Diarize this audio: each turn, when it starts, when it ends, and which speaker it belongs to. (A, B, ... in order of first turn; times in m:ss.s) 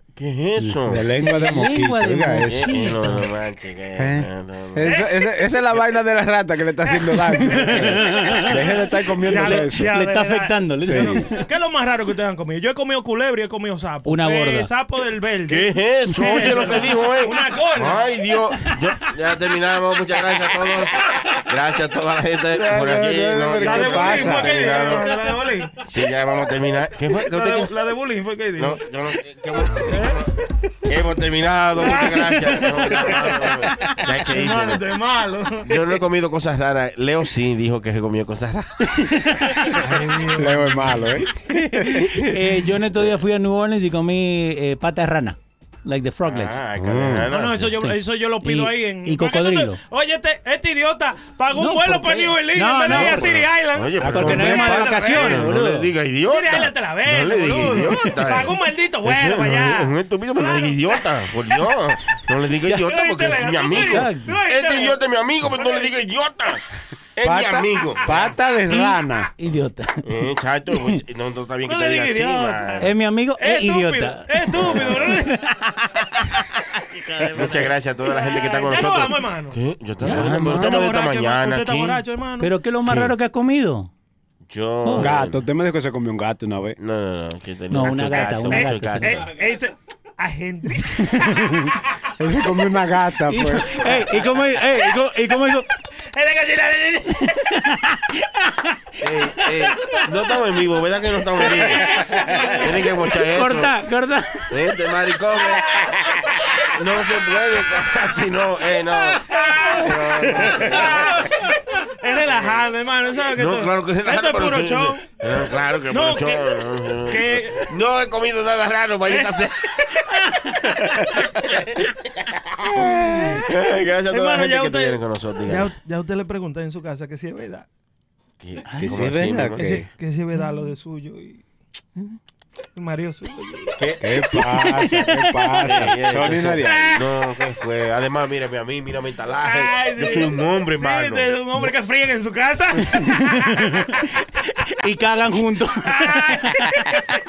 0:00.2-0:01.0 A
0:00.9-0:02.8 B
0:01.2-0:03.3 C
0:02.4-0:04.8 A
0:04.0-0:09.9 B
0:04.8-0:05.1 D
0:06.8-0:08.5 D
0:07.7-0:08.6 C
0:09.3-0:18.1 D
0:09.3-0:11.3 C
0:10.8-0:11.2 B
0:14.0-0:14.7 C
0:15.5-0:25.1 A
0:16.2-0:16.7 C
0:22.5-0:24.9 B
0:23.6-0:25.7 D
0:25.8-0:27.7 A
0:27.2-0:28.8 D
0:28.6-0:30.3 A
0:29.8-0:30.2 D
0:30.9-0:34.9 A
0:31.8-0:36.0 D
0:35.7-0:38.9 A
0:39.1-0:39.6 C
0:39.8-0:41.1 D
0:40.3-0:42.4 B
0:41.9-0:46.6 C
0:46.2-0:47.8 A
0:46.8-0:47.3 B
0:47.3-0:55.4 D
0:47.8-0:49.8 C
0:51.5-0:53.3 C
0:52.9-1:06.6 A
0:54.0-0:55.1 B
0:54.0-0:55.9 C
0:56.3-1:01.1 D
1:02.7-1:05.0 D
1:03.7-1:04.3 C
1:05.6-1:05.9 D
1:07.2-1:08.3 A
1:07.2-1:09.3 B
1:08.7-1:10.1 C
1:10.0-1:12.9 A
1:11.7-1:15.5 D
1:12.8-1:15.4 C
1:14.7-1:15.2 A
1:17.1-1:19.6 D
1:17.3-1:22.0 A
1:20.0-1:20.8 B
1:20.3-1:22.5 D
1:22.4-1:23.9 C
1:22.9-1:23.1 A
1:24.5-1:25.4 A
1:24.8-1:25.1 C
1:25.0-1:26.8 B
1:26.8-1:29.2 A
1:27.7-1:29.2 C
1:28.5-1:31.6 D
1:31.2-1:31.6 C
1:32.2-1:34.0 B
1:33.3-1:35.7 C
1:36.1-1:37.3 D
1:37.2-1:38.6 C
1:39.0-1:43.8 A
1:41.8-1:42.6 C
1:42.1-1:42.6 D
1:43.1-1:44.6 C
1:44.5-1:51.3 A
1:49.3-1:55.0 D
1:52.3-1:52.6 A
1:53.3-2:00.0 A
1:55.9-1:57.7 D
1:59.0-1:59.4 D
2:01.2-2:05.7 A
2:02.9-2:03.5 D
2:04.1-2:07.7 D
2:08.4-2:09.8 A
2:08.8-2:09.9 B
2:09.6-2:11.4 D
2:12.8-2:13.7 D
2:13.8-2:14.1 A
2:14.0-2:17.0 B
2:14.5-2:15.5 C
2:15.6-2:21.3 A
2:19.4-2:24.0 D
2:23.1-2:27.0 C
2:25.8-2:26.6 D